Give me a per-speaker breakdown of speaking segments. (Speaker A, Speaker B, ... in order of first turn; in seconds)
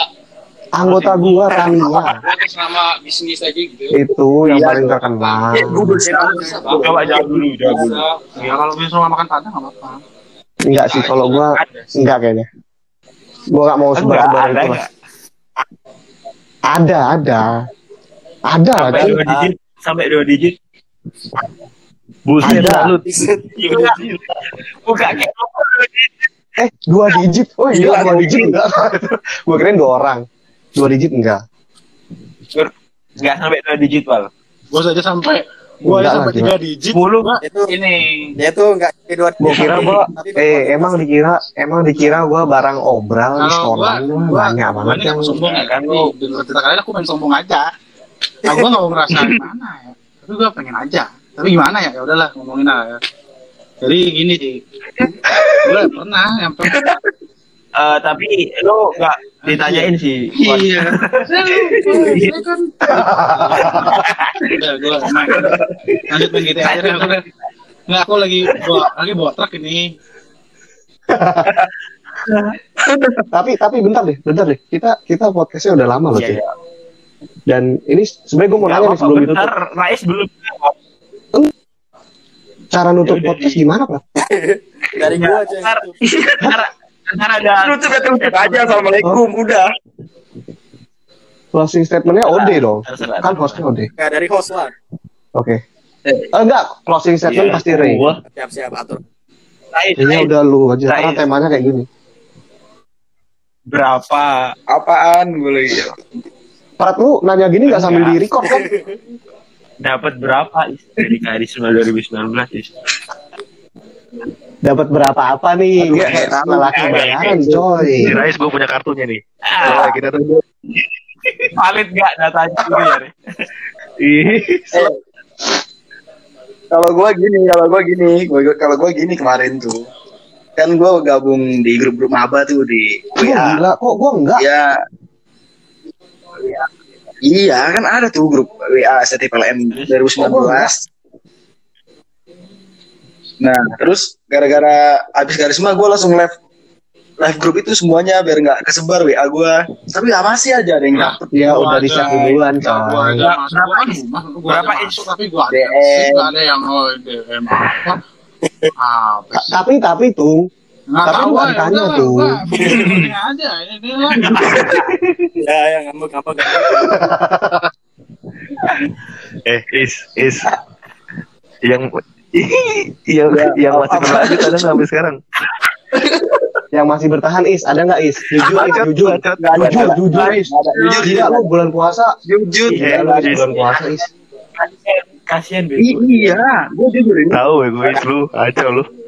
Speaker A: 0.8-2.2, 3.9-6.0, 10.7-12.5, 13.5-14.8, 16.7-17.5, 18.5-19.2, 22.4-23.0, 26.6-30.2, 30.8-31.4, 35.8-36.5, 39.4-45.4, 62.9-64.0, 71.1-71.5, 73.3-76.4, 77.5-79.5, 82.7-84.0, 91.5-93.9, 95.4-95.6, 96.3-98.1, 100.0-101.9, 106.8-108.7, 114.6-118.1, 133.2-134.4, 140.2-140.7, 151.3-153.2, 159.4-160.4, 161.1-162.4, 166.8-167.3, 176.7-180.5, 181.0-182.1, 182.8-184.1
Speaker B: 0.9-1.6, 6.5-7.3, 8.4-10.0, 34.7-38.3, 43.4-47.7, 48.5-53.0, 53.8-55.1, 55.6-56.8, 59.4-59.9, 60.4-63.9, 64.5-67.2, 67.9-69.8, 151.0-158.0, 158.8-159.6, 160.9-164.6
Speaker C: 1.5-2.0, 6.6-8.0, 10.7-11.6, 13.9-14.9, 18.8-20.6, 23.6-24.1, 24.9-26.1, 32.5-34.3, 36.9-37.4, 45.4-46.1, 57.8-62.4, 63.6-67.1, 68.5-68.8, 72.3-72.6, 76.1-76.5, 78.6-80.7, 83.0-83.6, 85.0-88.8, 92.3-93.6, 97.3-97.6, 99.7-100.3, 100.9-101.4, 103.7-104.5, 107.7-108.2, 109.8-112.7, 115.9-117.6, 119.5-120.0, 121.5-123.1, 139.7-140.0, 153.2-155.1, 178.5-178.9, 179.5-181.3, 184.6-186.4
Speaker D: 1.6-4.0, 4.5-8.1, 27.7-28.6, 87.5-89.7, 104.7-106.0, 115.8-117.6, 122.7-122.9, 126.7-129.8, 130.6-133.6, 134.4-134.7, 137.3-140.8, 143.4-146.3, 147.2-151.3, 152.0-152.4, 155.5-156.3, 164.4-164.6, 173.3-174.8, 175.9-176.2, 179.4-181.4, 182.3-183.4, 185.8-187.5
Speaker E: 6.0-7.1, 18.8-19.5, 23.0-23.4, 37.4-37.7, 38.4-41.0, 84.2-86.0, 94.0-94.7, 98.3-99.0, 108.4-108.9, 165.4-167.0
Speaker F: 22.3-24.2, 97.4-98.2, 118.0-120.4, 124.0-124.9, 164.8-165.3, 169.5-170.5, 171.6-175.2, 178.5-179.6, 182.8-183.6, 187.3-188.9